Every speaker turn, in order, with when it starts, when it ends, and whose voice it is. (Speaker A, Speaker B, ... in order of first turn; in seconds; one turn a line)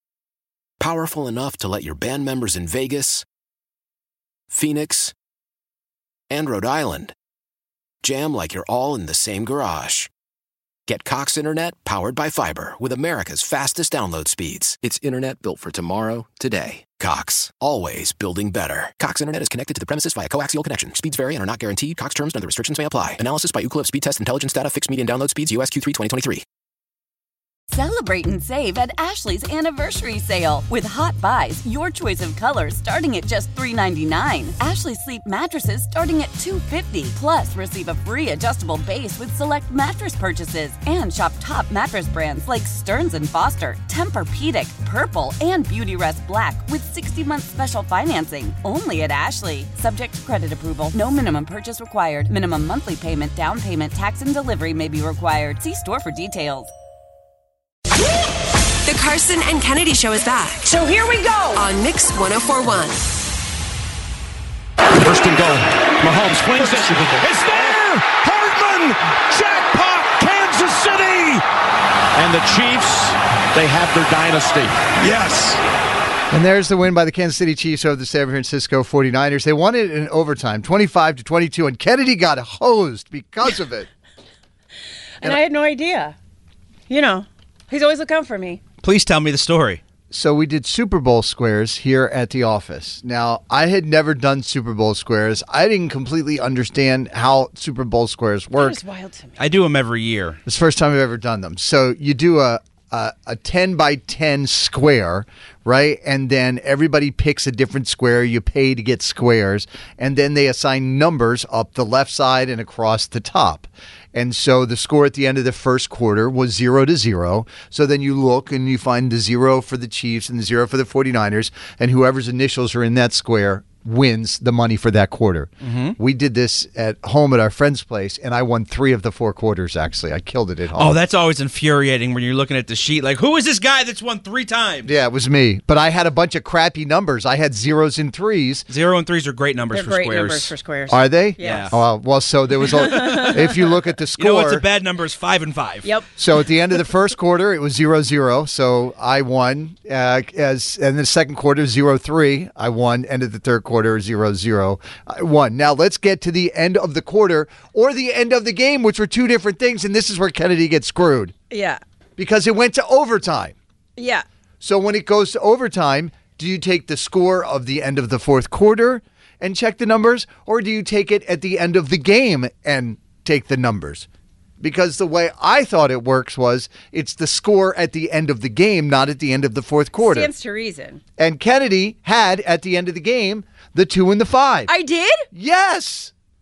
Speaker A: 0.8-3.2
Speaker A: 4.5-5.1
Speaker A: 6.3-7.1
Speaker A: 8.0-10.1
Speaker A: 10.9-26.4
Speaker B: 27.7-56.7
Speaker C: 58.8-60.7
Speaker D: 60.7-61.6
Speaker C: 61.5-63.1
Speaker E: 64.9-71.4
Speaker E: 72.1-75.6
Speaker F: 76.3-83.9
Speaker D: 85.2-86.2
Speaker D: 86.9-88.6
Speaker G: 88.8-89.8
Speaker F: 90.1-98.8
Speaker D: 98.5-99.5
Speaker G: 99.4-100.4
Speaker F: 100.5-130.9
Speaker G: 125.6-125.9
Speaker G: 130.7-134.9
Speaker F: 134.8-138.7
Speaker G: 138.7-140.5
Speaker D: 139.7-141.8
Speaker F: 140.9-144.6
Speaker G: 141.4-141.8
Speaker D: 142.8-143.4
Speaker G: 142.8-143.4
Speaker G: 144.2-145.9
Speaker D: 145.8-146.1
Speaker F: 146.2-161.3
Speaker D: 161.5-161.8
Speaker F: 162.2-163.6
Speaker D: 164.0-164.2
Speaker F: 164.6-174.1
Speaker F: 174.6-180.3
Speaker D: 180.0-181.0
Speaker F: 181.2-184.7
Speaker D: 184.7-185.2
Speaker F: 185.3-186.1